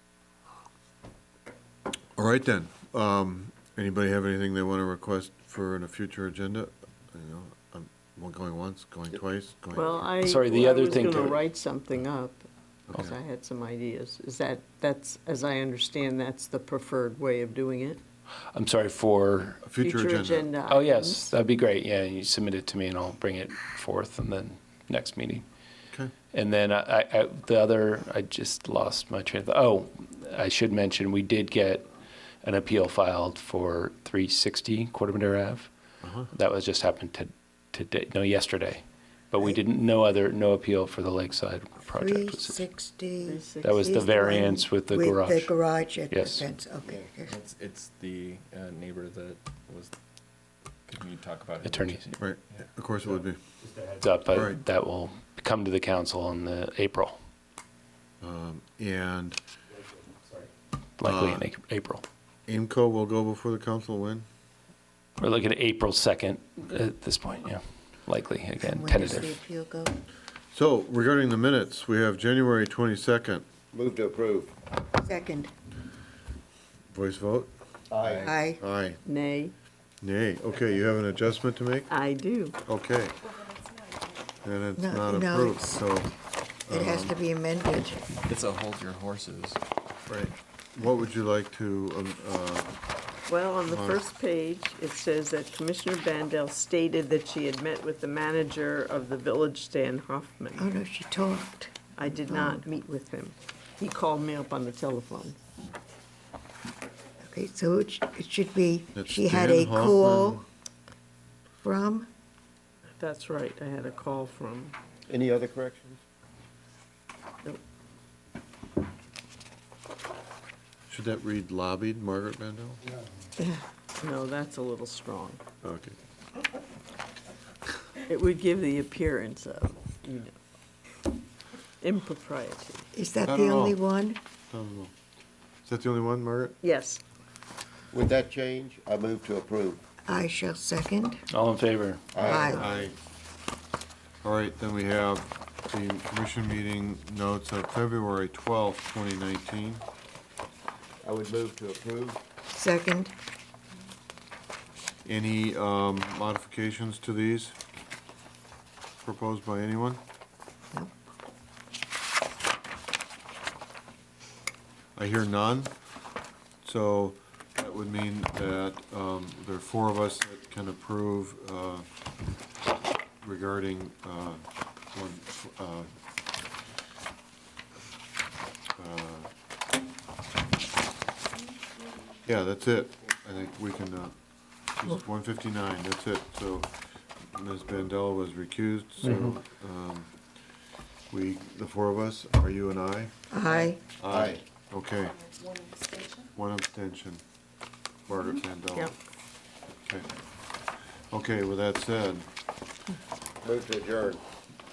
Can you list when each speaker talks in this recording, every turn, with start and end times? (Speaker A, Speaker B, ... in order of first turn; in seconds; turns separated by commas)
Speaker A: 2.2-10.1, Speaker B: 9.7-18.0, Speaker C: 10.2-11.4, Speaker A: 10.9-11.3, Speaker A: 12.9-13.2, Speaker C: 18.5-19.6, Speaker A: 19.6-20.5, Speaker B: 19.8-21.3, Speaker C: 20.7-25.4, Speaker C: 26.3-31.8, Speaker C: 32.4-35.7, Speaker A: 36.0-36.3, Speaker C: 36.3-42.6, Speaker D: 41.8-47.3, Speaker B: 43.2-43.8, Speaker C: 43.6-45.5, Speaker C: 46.1-46.5, Speaker E: 47.2-49.9, Speaker E: 50.9-52.6, Speaker C: 51.6-52.0, Speaker A: 52.2-53.4, Speaker E: 53.6-53.9, Speaker C: 54.0-57.2, Speaker A: 54.3-54.6, Speaker A: 58.2-59.4, Speaker C: 61.0-62.0, Speaker A: 61.0-61.5, Speaker A: 62.5-64.2, Speaker C: 65.2-69.4, Speaker D: 68.6-70.0, Speaker A: 70.5-73.4, Speaker F: 73.7-74.7, Speaker D: 75.0-75.5, Speaker A: 76.9-77.5, Speaker F: 77.9-78.3, Speaker D: 78.2-78.6, Speaker A: 78.5-79.0, Speaker B: 79.0-79.5, Speaker A: 80.0-81.9, Speaker B: 81.9-82.6, Speaker A: 82.7-83.2, Speaker A: 84.4-86.1, Speaker D: 84.8-85.8, Speaker A: 86.7-87.1, Speaker D: 86.7-88.0, Speaker E: 88.2-89.6, Speaker A: 90.1-92.7, Speaker B: 93.3-100.7, Speaker A: 93.6-94.0, Speaker D: 100.5-102.6, Speaker B: 102.0-105.3, Speaker D: 107.2-110.4, Speaker A: 108.9-110.4, Speaker D: 111.6-112.1, Speaker B: 113.0-114.7, Speaker F: 115.1-116.0, Speaker A: 120.9-122.8, Speaker D: 123.4-123.6, Speaker B: 124.0-125.4, Speaker A: 125.6-126.0, Speaker B: 128.0-130.3, Speaker B: 131.8-132.9, Speaker D: 132.9-134.2, Speaker A: 133.2-133.8, Speaker A: 134.5-134.9, Speaker A: 135.7-136.6, Speaker B: 136.6-137.0, Speaker F: 137.9-139.8, Speaker D: 140.1-141.2, Speaker C: 141.3-142.1, Speaker F: 142.1-142.9, Speaker D: 142.2-142.7, Speaker A: 142.2-142.9, Speaker A: 144.2-149.8, Speaker F: 151.0-152.2, Speaker D: 152.5-153.1, Speaker A: 155.0-157.6, Speaker A: 159.0-160.0, Speaker A: 164.9-165.7, Speaker A: 166.6-171.8, Speaker A: 173.2-175.9, Speaker A: 178.8-179.3, Speaker A: 182.2-184.1, Speaker A: 184.8-186.7, Speaker A: 187.3-190.1, Speaker A: 191.1-193.1, Speaker D: 193.3-193.8, Speaker A: 194.0-195.3, Speaker F: 194.1-194.4, Speaker A: 196.2-197.2, Speaker A: 198.1-198.9, Speaker A: 199.8-200.1, Speaker A: 201.1-202.3, Speaker F: 203.4-204.2